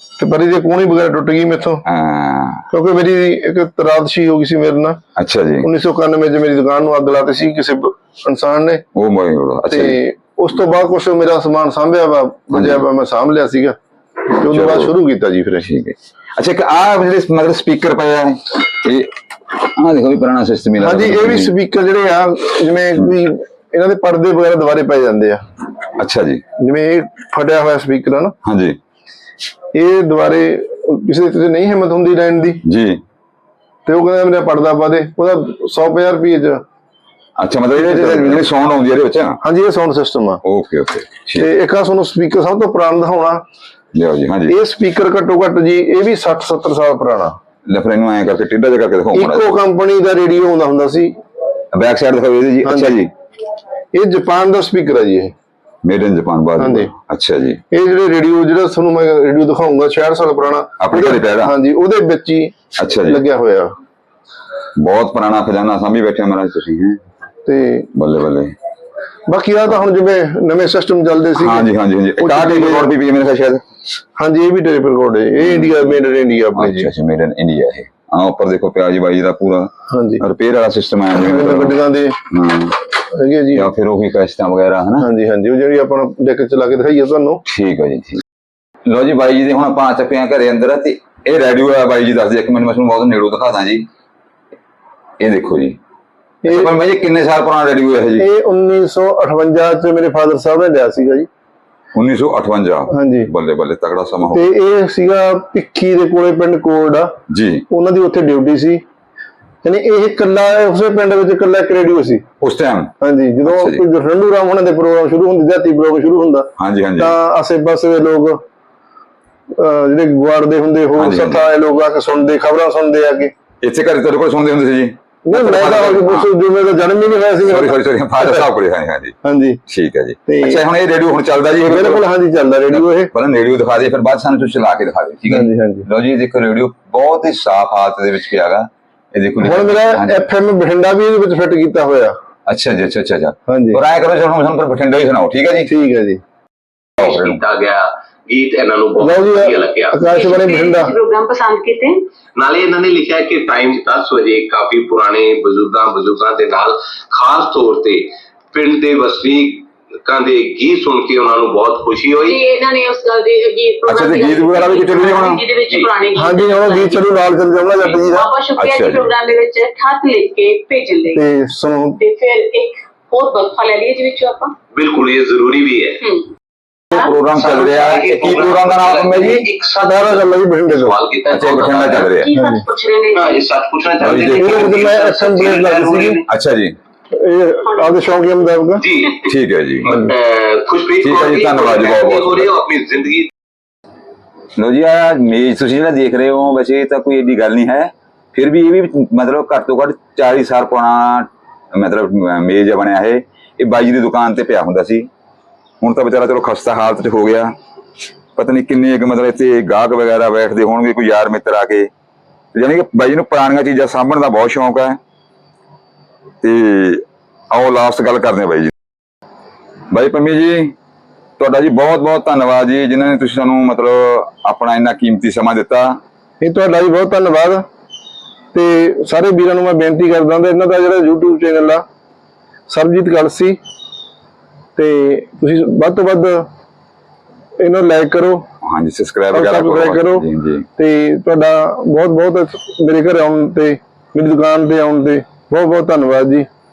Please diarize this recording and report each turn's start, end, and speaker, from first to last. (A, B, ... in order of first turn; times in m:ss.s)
0:00.2-0:01.8 A
0:01.8-0:02.6 B
0:02.7-0:05.0 A
0:05.2-0:05.7 B
0:05.6-0:08.8 A
0:08.9-0:10.0 B
0:09.7-0:13.8 A
0:12.5-0:12.8 B
0:14.3-0:15.7 A
0:14.5-0:14.9 B
0:15.6-0:21.5 B
0:20.8-0:25.4 A
0:26.0-0:26.4 B
0:26.6-0:28.3 A
0:28.4-0:28.8 B
0:29.7-0:32.6 A
0:32.6-0:33.0 B
0:33.8-0:36.6 A
0:37.4-0:39.4 B
0:37.7-0:38.4 A
0:39.4-0:40.4 A
0:40.4-0:41.5 B
0:41.3-0:43.4 A
0:43.9-0:44.5 B
0:44.5-0:47.3 A
0:47.7-0:49.6 B
0:49.1-0:51.2 A
0:51.7-0:53.1 B
0:52.6-0:52.9 A
0:53.9-0:55.3 A
0:55.8-0:57.6 B
0:56.6-0:56.9 A
0:57.7-1:02.5 A
1:00.8-1:01.5 B
1:02.8-1:03.2 B
1:03.0-1:03.7 A
1:04.8-1:07.0 B
1:07.4-1:07.9 A
1:07.9-1:08.5 B
1:09.3-1:11.7 A
1:11.3-1:13.6 B
1:12.2-1:12.9 A
1:14.2-1:16.9 A
1:15.4-1:16.0 B
1:16.5-1:21.8 B
1:19.9-1:20.2 A
1:21.2-1:22.2 A
1:22.3-1:22.8 B
1:23.1-1:23.7 A
1:23.5-1:25.1 B
1:25.0-1:27.4 A
1:27.5-1:28.2 B
1:28.8-1:33.8 B
1:35.2-1:35.8 B
1:36.4-1:36.7 A
1:36.4-1:38.3 B
1:38.2-1:41.3 A
1:41.9-1:44.5 B
1:42.9-1:43.3 A
1:44.3-1:47.1 A
1:47.3-1:47.6 B
1:47.7-1:48.8 A
1:49.6-1:52.2 A
1:52.4-1:52.9 B
1:53.0-1:58.4 A
1:53.4-1:53.8 B
1:56.6-1:57.1 B
1:59.6-2:03.3 A
2:01.0-2:01.5 B
2:03.6-2:06.3 B
2:05.3-2:08.4 A
2:07.4-2:09.1 B
2:09.2-2:09.6 A
2:09.7-2:12.0 B
2:10.3-2:10.6 A
2:11.7-2:13.1 A
2:12.7-2:20.2 B
2:15.3-2:15.9 A
2:19.4-2:22.1 A
2:22.5-2:25.7 B
2:23.5-2:23.8 A
2:25.7-2:26.2 A
2:27.0-2:30.0 C
2:27.0-2:27.4 B
2:29.0-2:30.9 A
2:30.0-2:32.1 D
2:32.3-2:42.4 C
2:42.2-2:47.1 D
2:43.9-2:45.4 B
2:46.2-2:48.3 A
2:47.8-2:51.2 D
2:48.6-2:49.1 B
2:51.1-2:52.0 A
2:52.0-2:54.5 D
2:54.7-2:56.0 C
2:56.9-2:59.5 B
2:57.3-3:02.1 C
2:59.8-3:01.0 A
3:01.3-3:02.3 B
3:01.9-3:03.4 D
3:02.3-3:02.6 A
3:03.1-3:06.3 C
3:04.0-3:04.9 B
3:04.3-3:06.2 A
3:06.3-3:06.8 B
3:07.1-3:08.8 A
3:08.8-3:09.3 C
3:09.2-3:09.9 B
3:09.8-3:13.3 C
3:11.0-3:12.5 B
3:14.6-3:25.1 B
3:25.8-3:27.5 B
3:28.4-3:31.9 B
3:32.5-3:35.0 B
3:36.4-3:38.7 B
3:39.9-3:40.7 B
3:41.4-3:46.0 B
3:46.4-3:47.6 A
3:48.5-3:51.8 A
3:52.7-3:53.6 A
3:54.8-3:56.4 A
3:57.6-3:58.4 A
3:58.6-4:00.6 B
3:59.3-4:00.2 A
4:00.8-4:06.5 A